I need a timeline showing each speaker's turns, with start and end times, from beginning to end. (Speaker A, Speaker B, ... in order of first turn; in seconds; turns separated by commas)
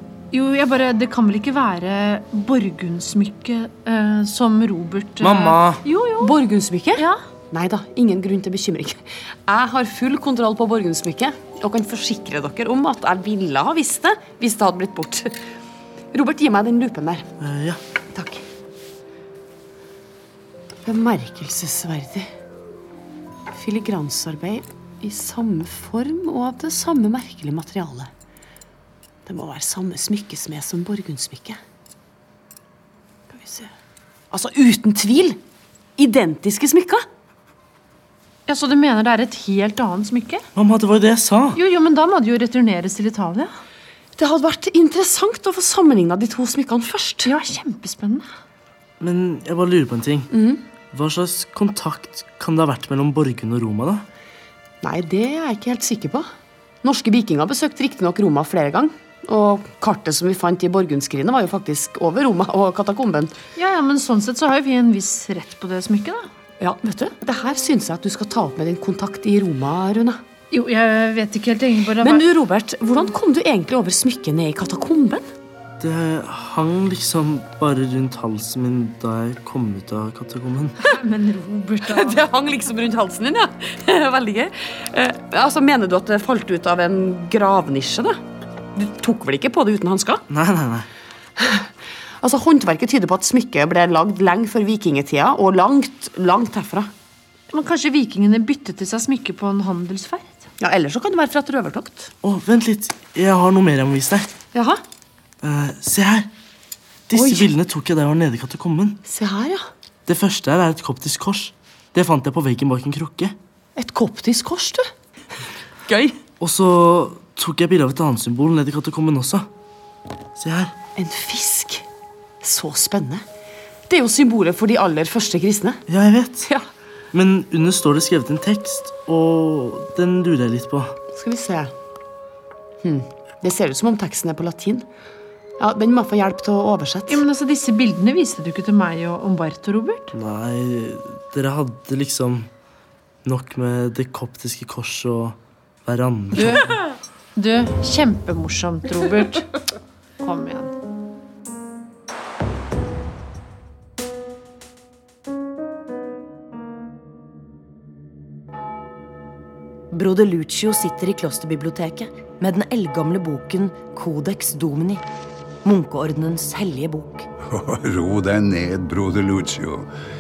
Speaker A: 0.3-6.4, Speaker B: 5.2-5.8, Speaker C: 6.2-15.4, Speaker C: 16.1-17.3, Speaker B: 17.4-17.8, Speaker C: 18.1-18.4, Speaker C: 20.9-22.3, Speaker C: 23.5-28.1, Speaker C: 29.3-31.6, Speaker C: 33.3-33.7, Speaker C: 34.3-35.4, Speaker C: 36.0-37.0, Speaker A: 38.5-40.4, Speaker B: 40.5-41.6, Speaker A: 41.5-43.5, Speaker C: 44.2-47.4, Speaker A: 47.2-48.3, Speaker B: 49.0-50.3, Speaker C: 50.3-50.6, Speaker B: 50.9-54.0, Speaker C: 54.8-56.3, Speaker C: 56.8-63.4, Speaker A: 63.6-66.3, Speaker C: 66.6-70.2, Speaker A: 70.5-72.2, Speaker C: 72.0-75.2, Speaker B: 75.8-80.8, Speaker A: 80.8-82.2, Speaker C: 81.8-88.2, Speaker C: 88.8-90.2, Speaker B: 90.3-90.9, Speaker C: 91.4-91.7, Speaker C: 92.2-96.9, Speaker A: 97.5-100.4, Speaker C: 100.6-102.1, Speaker B: 102.2-104.3, Speaker C: 104.5-104.8, Speaker B: 105.4-106.3, Speaker B: 107.1-109.0, Speaker C: 107.1-107.5, Speaker C: 109.0-109.7, Speaker B: 110.1-113.3, Speaker C: 113.8-114.8, Speaker C: 115.9-116.2, Speaker B: 116.4-119.5, Speaker B: 120.4-120.7, Speaker C: 121.0-121.8, Speaker C: 122.4-123.2, Speaker C: 123.9-125.8, Speaker B: 125.9-126.5, Speaker B: 127.1-130.9, Speaker C: 131.1-131.7, Speaker C: 132.8-134.9, Speaker C: 135.6-137.2, Speaker A: 137.1-140.1, Speaker B: 140.2-142.5, Speaker B: 143.2-146.6, Speaker A: 146.3-146.7, Speaker A: 147.4-149.5, Speaker A: 150.2-150.7, Speaker D: 159.9-165.0, Speaker D: 165.6-167.3, Speaker E: 167.5-169.9